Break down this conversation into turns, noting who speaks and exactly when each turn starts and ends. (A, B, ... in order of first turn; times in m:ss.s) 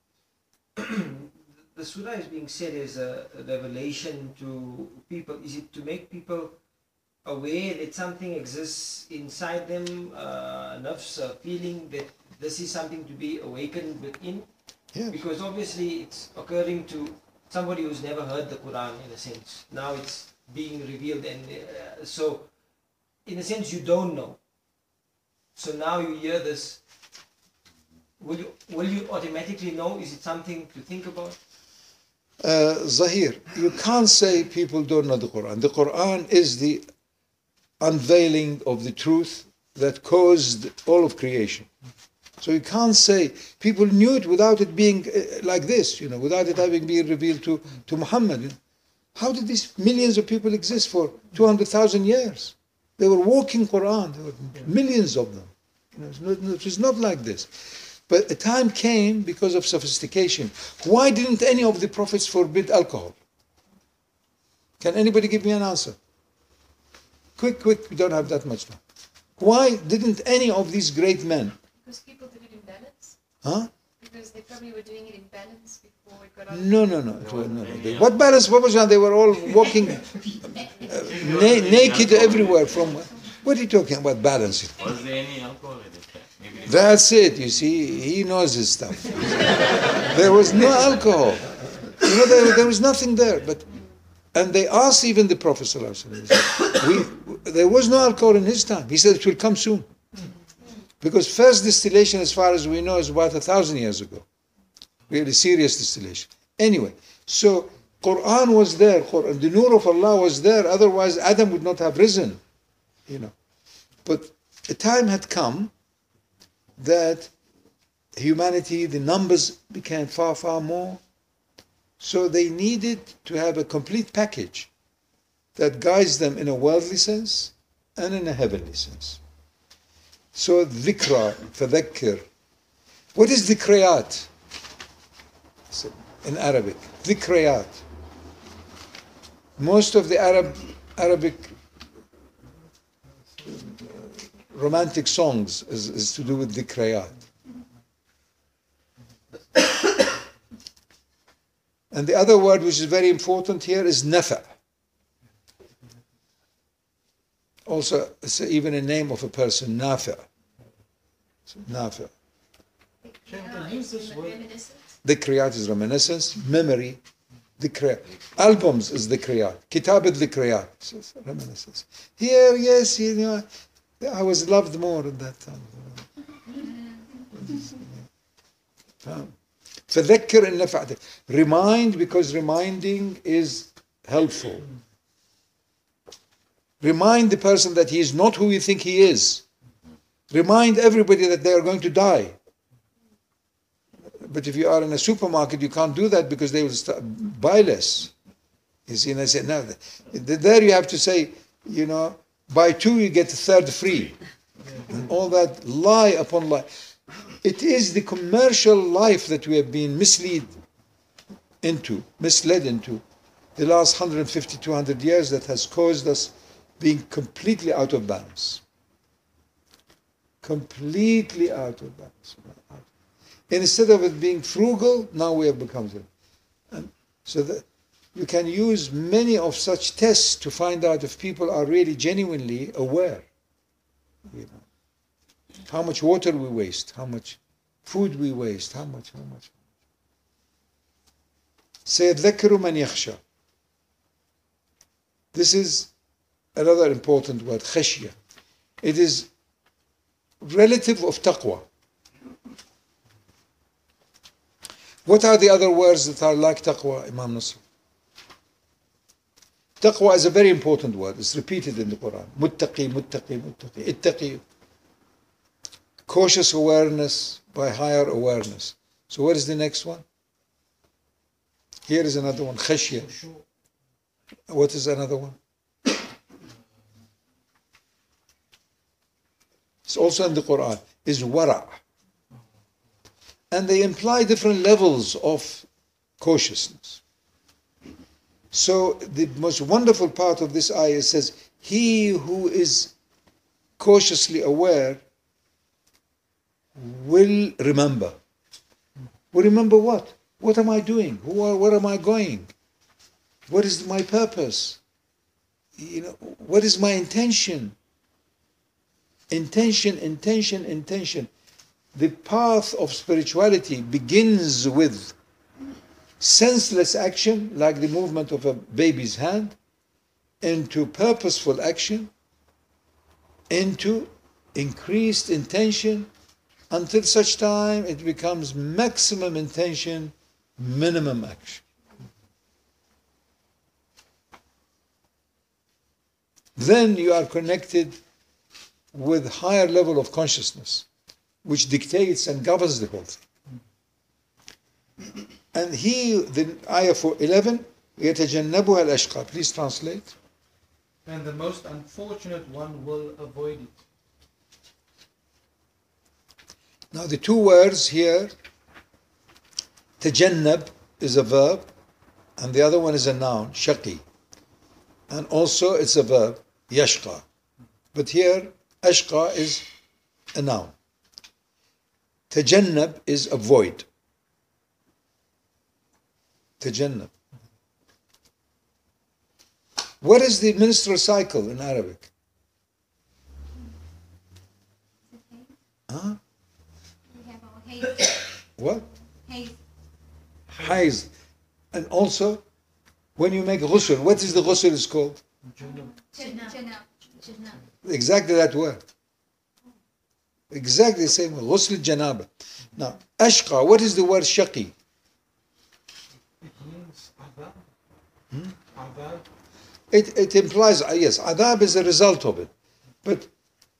0:00.8-0:06.6 A
0:07.2-0:22.5 A
0:14.9-0:15.2 B
0:23.2-0:24.4 A
0:25.6-0:26.8 A
0:28.2-0:31.4 A
0:32.4-0:36.9 B
0:37.8-0:41.7 B
0:42.4-0:48.6 B
0:49.2-1:03.2 B
1:04.8-1:06.0 B
1:07.4-1:08.8 B
1:09.4-1:11.6 B
1:11.8-1:13.2 C
1:13.4-1:13.7 B
1:14.0-1:16.9 C
1:16.5-1:20.2 B
1:17.2-1:18.0 D
1:20.8-1:24.9 B
1:21.0-1:22.8 D
1:24.8-1:26.8 D
1:26.7-1:33.7 B
1:34.3-1:39.9 B
1:41.0-1:44.2 B
1:45.1-1:52.4 B
1:53.1-1:53.3 B
1:54.0-1:55.7 B
1:56.8-1:57.3 B
1:58.2-2:01.0 B
2:02.0-2:04.7 B
2:05.6-2:09.2 B
2:10.4-2:12.2 B
2:13.1-2:14.3 B
2:15.7-2:17.8 B
2:19.6-2:21.6 B
2:23.5-2:27.2 B
2:31.9-2:34.5 B
2:37.7-2:40.3 B
2:41.5-2:42.1 B
2:43.0-2:44.9 C
2:43.3-2:44.5 E
2:45.0-2:47.0 B
2:47.6-2:53.5 B
2:54.0-2:56.1 B
2:57.3-2:58.0 B
2:59.0-2:59.4 B
2:59.9-3:04.7 B
3:06.8-3:09.4 B
3:10.3-3:12.4 B
3:14.2-3:18.1 B
3:18.9-3:24.2 B
3:24.9-3:26.7 B
3:27.4-3:30.6 B
3:31.6-3:33.0 B
3:33.6-3:38.6 B
3:40.4-3:42.9 B
3:43.5-3:46.1 B
3:46.7-3:53.3 B
3:54.3-3:54.6 B
3:55.7-3:59.5 B
4:01.9-4:03.2 B
4:05.3-4:05.9 B
4:06.6-4:08.2 B
4:08.8-4:09.3 B
4:10.4-4:11.6 B
4:15.0-4:17.6 B
4:19.8-4:24.4 B
4:26.1-4:30.0 B
4:31.9-4:33.1 B
4:33.0-4:33.4 E
4:34.5-4:35.4 B
4:39.9-4:41.8 B
4:43.5-4:45.7 B
4:46.2-4:47.0 B
4:48.5-4:52.9 B
4:53.8-4:55.0 B
4:56.8-4:58.2 B
4:59.3-5:02.5 B
5:03.5-5:04.8 B
5:05.8-5:07.8 B
5:09.3-5:11.3 B
5:12.0-5:15.2 B
5:16.2-5:19.6 B
5:20.4-5:22.1 B
5:23.5-5:26.1 B
5:26.7-5:31.6 B
5:36.6-5:38.0 B
5:38.9-5:40.9 B
5:41.4-5:43.2 B
5:45.5-5:50.1 B
5:51.1-5:53.8 E
5:56.9-5:58.3 B
6:00.0-6:01.7 B
6:02.4-6:04.0 B
6:05.1-6:07.2 B
6:07.9-6:09.6 B
6:10.3-6:10.8 B
6:12.3-6:13.9 B
6:16.6-6:17.1 B
6:20.0-6:22.1 B
6:25.1-6:25.5 C
6:25.9-6:26.2 B
6:27.1-6:28.3 C
6:28.6-6:28.9 B
6:29.3-6:29.5 C
6:30.6-6:31.1 B
6:31.7-6:32.4 B
6:33.2-6:35.2 B
6:35.4-6:36.0 E
6:35.7-6:37.6 C
6:37.8-6:38.8 B
6:40.5-6:44.7 B
6:46.4-6:47.7 E
6:48.7-6:49.3 E
6:49.9-6:52.5 B
6:53.0-6:53.3 B